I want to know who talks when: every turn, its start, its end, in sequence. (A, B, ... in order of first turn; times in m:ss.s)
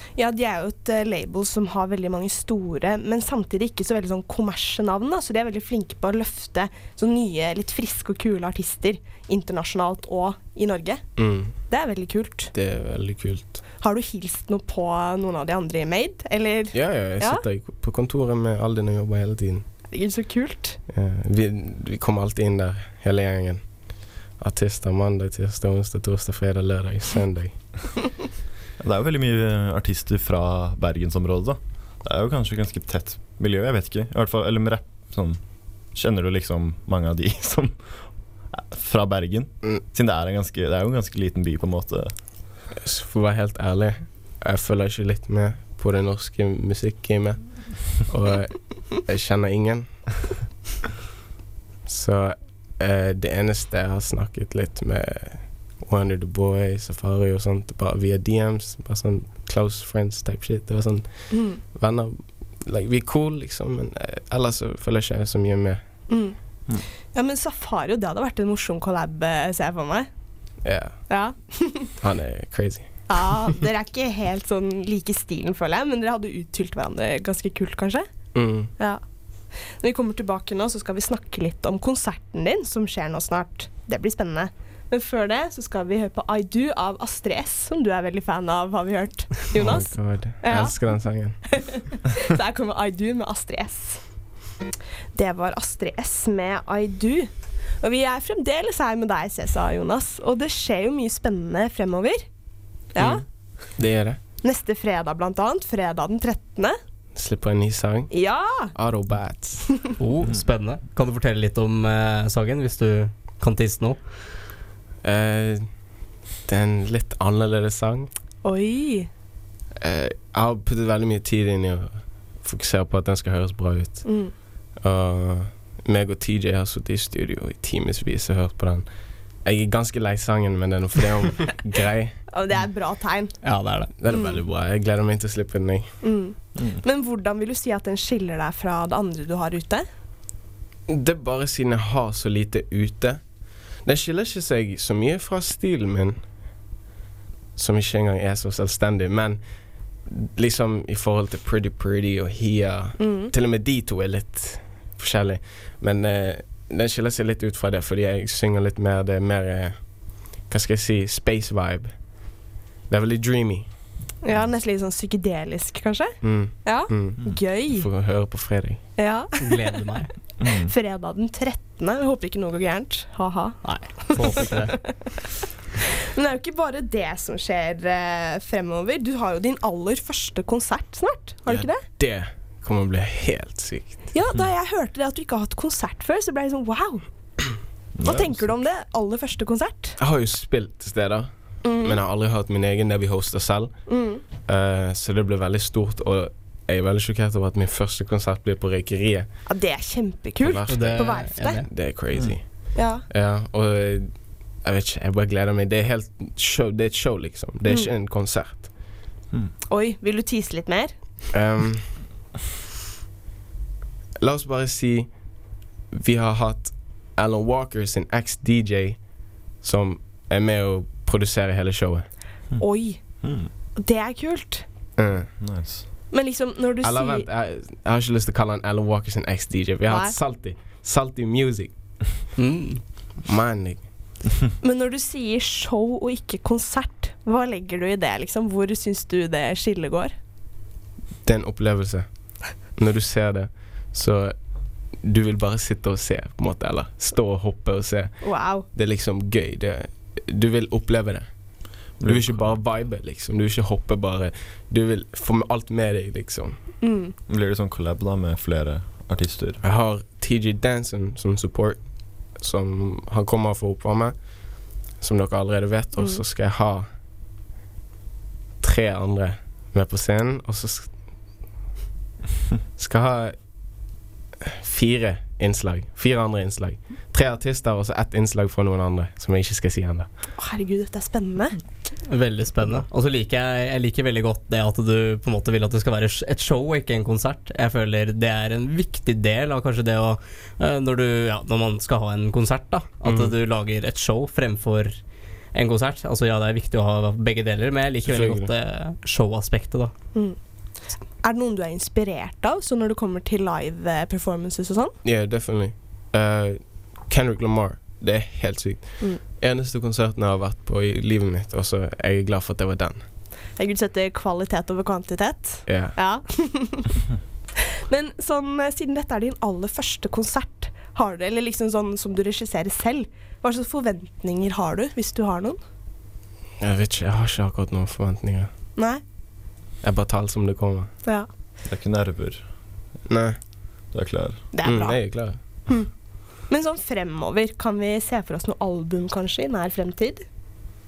0:00.2-0:11.0 A
0:11.2-0:11.5 B
0:11.7-0:12.5 A
0:12.5-0:13.6 B
0:13.8-0:17.4 A
0:16.7-0:19.7 B
0:19.9-0:20.8 A
0:20.9-0:23.6 B
0:24.4-0:28.1 B
0:28.8-0:35.4 C
0:35.9-0:37.9 C
0:38.5-0:42.1 C
0:42.7-0:50.0 B
0:51.9-1:05.8 B
1:01.3-1:01.6 A
1:06.1-1:06.4 A
1:07.1-1:10.1 A
1:10.6-1:11.0 B
1:11.1-1:11.9 A
1:12.0-1:13.1 B
1:13.1-1:18.1 A
1:18.3-1:18.7 B
1:19.8-1:30.8 A
1:29.6-1:31.4 B
1:31.4-1:34.0 A
1:35.1-1:37.3 A
1:37.8-1:42.2 A
1:42.9-1:43.2 A
1:43.8-1:44.2 B
1:44.4-1:46.8 A
1:47.2-1:48.1 B
1:48.1-1:48.7 A
1:48.7-1:49.7 B
1:50.0-1:54.0 D
1:55.0-1:55.7 B
1:56.5-1:58.1 B
1:58.4-1:59.1 A
1:59.8-2:04.1 B
2:04.0-2:04.3 A
2:04.8-2:08.9 B
2:09.4-2:12.2 B
2:12.3-2:13.4 A
2:13.4-2:13.9 D
2:14.0-2:15.9 B
2:14.1-2:14.4 A
2:16.0-2:19.9 A
2:20.9-2:23.2 B
2:23.8-2:26.2 B
2:27.6-2:29.4 B
2:30.1-2:39.8 B
2:33.0-2:33.3 A
2:40.5-2:41.9 B
2:42.9-2:43.7 B
2:44.2-2:47.9 A
2:46.2-2:48.8 B
2:49.0-2:49.8 A
2:49.4-2:50.1 D
2:50.4-2:50.7 C
2:50.4-2:55.3 A
2:53.6-2:54.9 D
2:56.0-3:01.8 A
3:01.5-3:04.1 B
3:04.1-3:07.0 A
3:08.0-3:08.5 C
3:08.0-3:10.0 A
3:10.0-3:11.3 B
3:11.6-3:12.0 A
3:11.8-3:13.8 B
3:13.9-3:14.2 A
3:14.4-3:19.3 B
3:19.5-3:21.7 A
3:20.4-3:22.4 B
3:20.7-3:21.7 D
3:22.8-3:23.0 A
3:23.1-3:24.1 B
3:24.6-3:28.7 B
3:29.7-3:30.9 A
3:31.3-3:31.9 B
3:34.2-3:35.1 B
3:35.9-3:39.0 B
3:39.6-3:42.1 B
3:42.6-3:43.0 A
3:43.2-3:43.5 C
3:43.8-3:44.7 A
3:45.0-3:45.3 B
3:45.4-3:45.8 C
3:46.1-3:47.3 A
3:46.8-3:51.7 B
3:49.9-3:50.2 A
3:52.4-3:52.8 D
3:53.2-3:53.9 B
3:54.6-4:00.1 A
4:01.2-4:02.1 B
4:02.8-4:04.4 B
4:05.0-4:11.3 B
4:08.2-4:08.7 A
4:12.0-4:12.5 C
4:12.0-4:16.6 B
4:16.8-4:17.1 A
4:17.3-4:19.6 C
4:19.6-4:21.8 B
4:22.4-4:24.2 B
4:25.0-4:26.9 B
4:28.6-4:30.9 B
4:32.8-4:33.4 B
4:34.4-4:40.1 B
4:40.4-4:41.6 A
4:42.1-4:55.0 D
4:53.0-4:53.3 B
4:55.5-4:59.9 D
4:58.0-4:58.5 B
5:01.2-5:04.9 A
5:05.0-5:13.0 B
5:13.6-5:17.0 A
5:15.7-5:16.0 B
5:17.6-5:25.6 A
5:26.6-5:28.5 B
5:28.8-5:29.0 A
5:29.8-5:30.9 B
5:31.6-5:32.4 C
5:33.1-5:33.4 B
5:33.9-5:34.4 C
5:34.5-5:35.0 A
5:34.6-5:35.4 B
5:36.5-5:40.2 A